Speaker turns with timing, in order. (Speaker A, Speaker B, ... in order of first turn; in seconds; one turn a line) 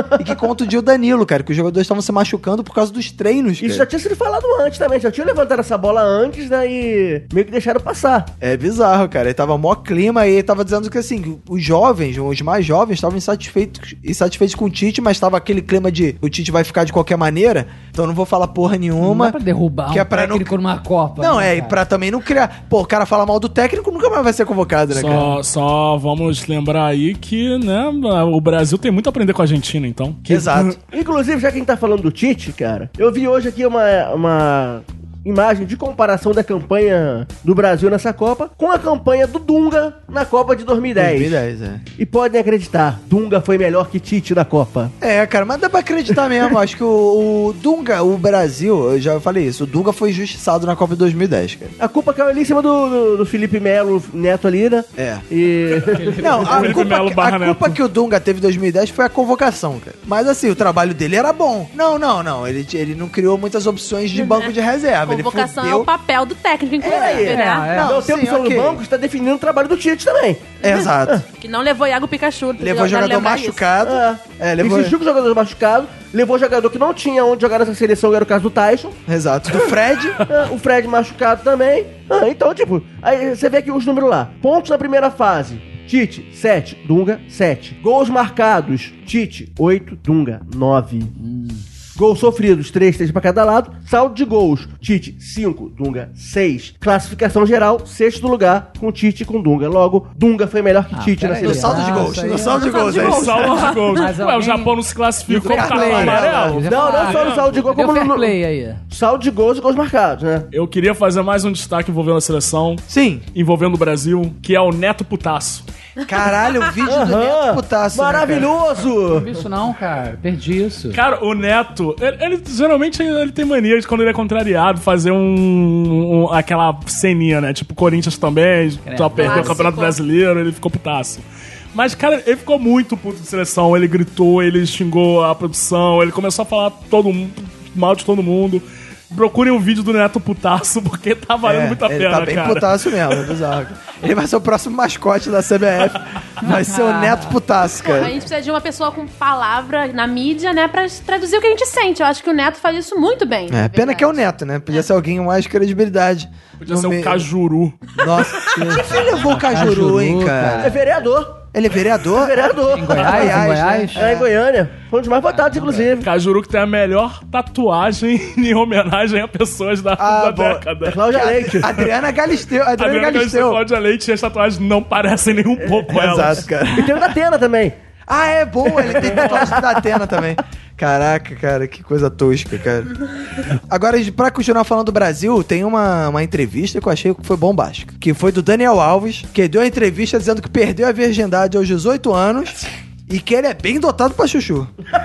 Speaker A: 0.2-3.9
Speaker B: 3.6-8.3
Speaker A: 8.4-19.4
Speaker C: 19.0-21.8
Speaker A: 19.9-20.6
Speaker A: 21.2-25.4
Speaker D: 24.9-30.8
Speaker A: 30.2-30.8
Speaker B: 30.9-41.4
Speaker A: 41.0-41.8
Speaker B: 42.0-44.9
Speaker A: 45.0-51.8
Speaker B: 51.8-56.8
Speaker A: 55.0-55.2
Speaker D: 56.0-57.8
Speaker A: 56.2-65.9
Speaker E: 64.1-64.5
Speaker E: 65.1-67.7
Speaker B: 66.8-71.2
Speaker A: 66.8-68.8
Speaker C: 67.3-68.0
Speaker A: 70.6-71.2
Speaker E: 70.6-73.6
Speaker A: 72.6-74.9
Speaker B: 73.8-79.0
Speaker A: 79.1-80.2
Speaker B: 80.2-91.1
Speaker C: 91.2-91.6
Speaker B: 92.0-102.1
Speaker C: 100.9-108.8
Speaker A: 101.4-103.7
Speaker E: 102.5-104.0
Speaker D: 102.7-107.7
Speaker A: 105.4-106.7
Speaker B: 106.6-108.4
Speaker B: 108.9-110.5
Speaker D: 110.5-115.6
Speaker A: 112.9-113.2
Speaker A: 116.1-118.5
Speaker B: 116.8-119.4
Speaker C: 119.1-121.0
Speaker D: 120.9-143.3
Speaker C: 128.8-129.7
Speaker E: 129.1-130.0
Speaker A: 141.4-148.1
Speaker C: 146.4-147.3
Speaker E: 147.8-154.1
Speaker A: 153.5-157.3
Speaker D: 156.6-158.5
Speaker A: 158.0-160.8
Speaker D: 159.1-159.4
Speaker C: 159.5-160.8
Speaker B: 160.6-161.4
Speaker A: 161.5-164.3
Speaker B: 162.1-166.1
Speaker C: 162.7-164.0
Speaker C: 165.5-165.8
Speaker D: 165.5-171.0
Speaker A: 170.0-173.6
Speaker B: 170.8-171.7
Speaker D: 172.8-176.5
Speaker A: 175.9-177.1
Speaker B: 176.7-177.8
Speaker A: 178.1-194.7
Speaker B: 178.7-180.0